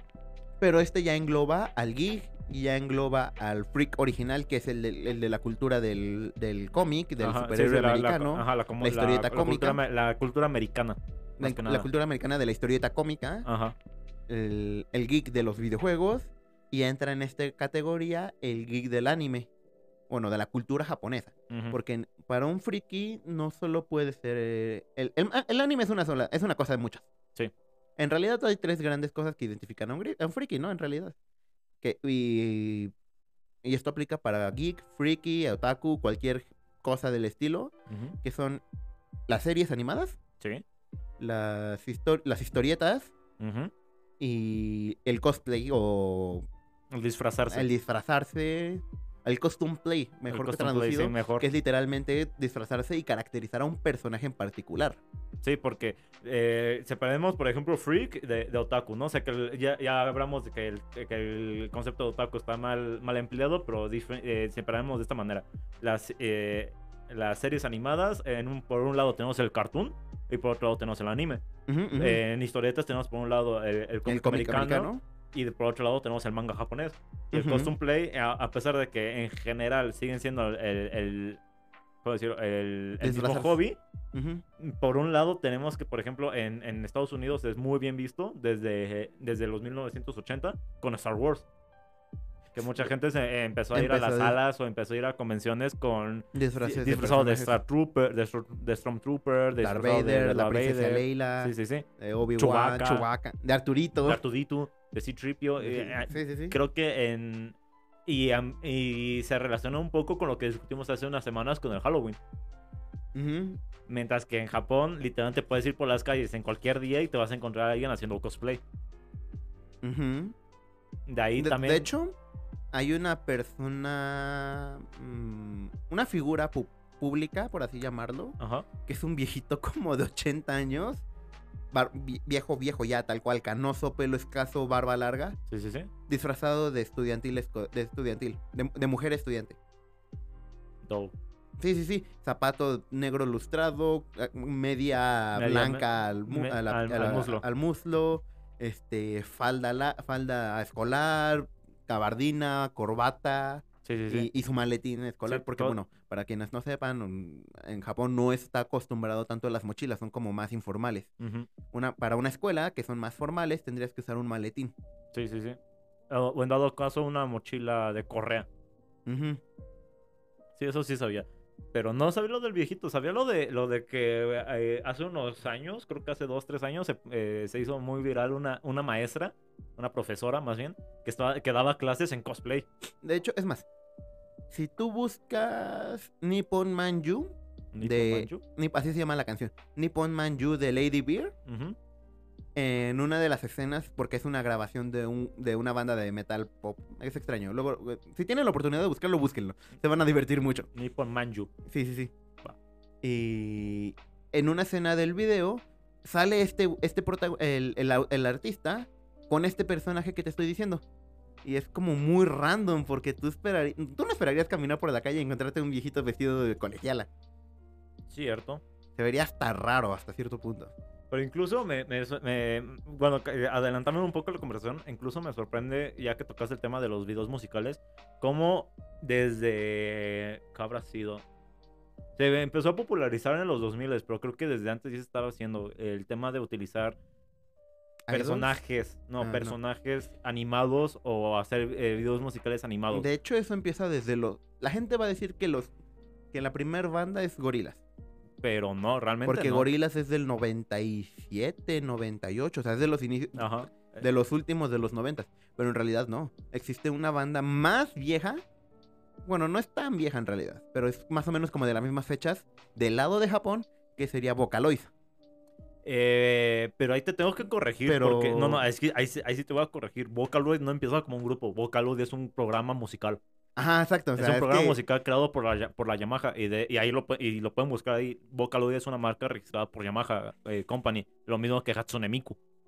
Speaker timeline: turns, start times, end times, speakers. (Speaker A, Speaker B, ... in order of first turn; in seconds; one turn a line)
Speaker A: 0.6-9.8
Speaker B: 7.2-11.9
Speaker A: 11.4-13.5
Speaker B: 13.4-13.8
Speaker A: 14.3-19.5
Speaker A: 20.1-27.1
Speaker B: 21.5-21.8
Speaker A: 28.0-31.1
Speaker A: 31.8-32.9
Speaker A: 33.6-37.7
Speaker B: 37.9-38.1
Speaker A: 38.2-38.6
Speaker A: 39.3-40.2
Speaker A: 41.2-43.1
Speaker B: 43.4-43.7
Speaker A: 44.2-46.4
Speaker B: 46.9-47.7
Speaker A: 47.5-55.0
Speaker B: 50.3-51.5
Speaker B: 55.4-71.4
Speaker A: 71.7-72.2
Speaker B: 72.0-81.4
Speaker A: 74.1-75.0
Speaker A: 77.3-77.7
Speaker B: 82.0-83.8
Speaker A: 83.0-83.6
Speaker A: 84.1-84.4
Speaker B: 84.6-91.5
Speaker B: 92.5-101.8
Speaker A: 93.7-94.4
Speaker A: 96.3-97.6
Speaker A: 99.6-104.2
Speaker B: 102.4-103.1
Speaker B: 104.0-107.6
Speaker A: 105.6-106.6
Speaker B: 108.1-112.2
Speaker A: 113.1-113.6
Speaker B: 113.9-118.6
Speaker A: 119.8-120.3
Speaker B: 121.1-121.9
Speaker A: 121.4-122.2
Speaker A: 122.7-131.0
Speaker B: 128.4-128.7
Speaker A: 131.7-135.4
Speaker B: 135.5-135.9
Speaker A: 136.1-139.6
Speaker B: 140.8-141.2
Speaker A: 141.6-161.1
Speaker B: 145.4-147.4
Speaker B: 153.8-154.3
Speaker B: 155.3-155.8
Speaker B: 161.2-161.5
Speaker A: 161.7-164.7
Speaker B: 165.1-165.6
Speaker B: 166.1-168.5
Speaker A: 169.1-169.4
Speaker B: 170.6-182.7
Speaker A: 183.0-183.7
Speaker A: 184.5-191.3
Speaker B: 187.7-188.4
Speaker B: 191.5-191.8
Speaker A: 192.6-200.7
Speaker B: 200.7-201.5
Speaker A: 201.7-202.1
Speaker A: 203.0-210.8
Speaker A: 211.4-217.1
Speaker B: 218.1-218.6
Speaker A: 219.0-220.7
Speaker B: 221.1-231.2
Speaker B: 232.2-237.0
Speaker A: 238.1-238.6
Speaker B: 238.1-243.1
Speaker A: 239.2-239.6
Speaker A: 242.9-245.7
Speaker A: 246.3-247.8
Speaker B: 248.4-249.7
Speaker A: 249.2-258.4
Speaker B: 253.4-254.1
Speaker A: 259.2-264.9
Speaker B: 265.9-273.2
Speaker A: 267.9-268.6
Speaker A: 273.6-274.8
Speaker B: 274.2-282.4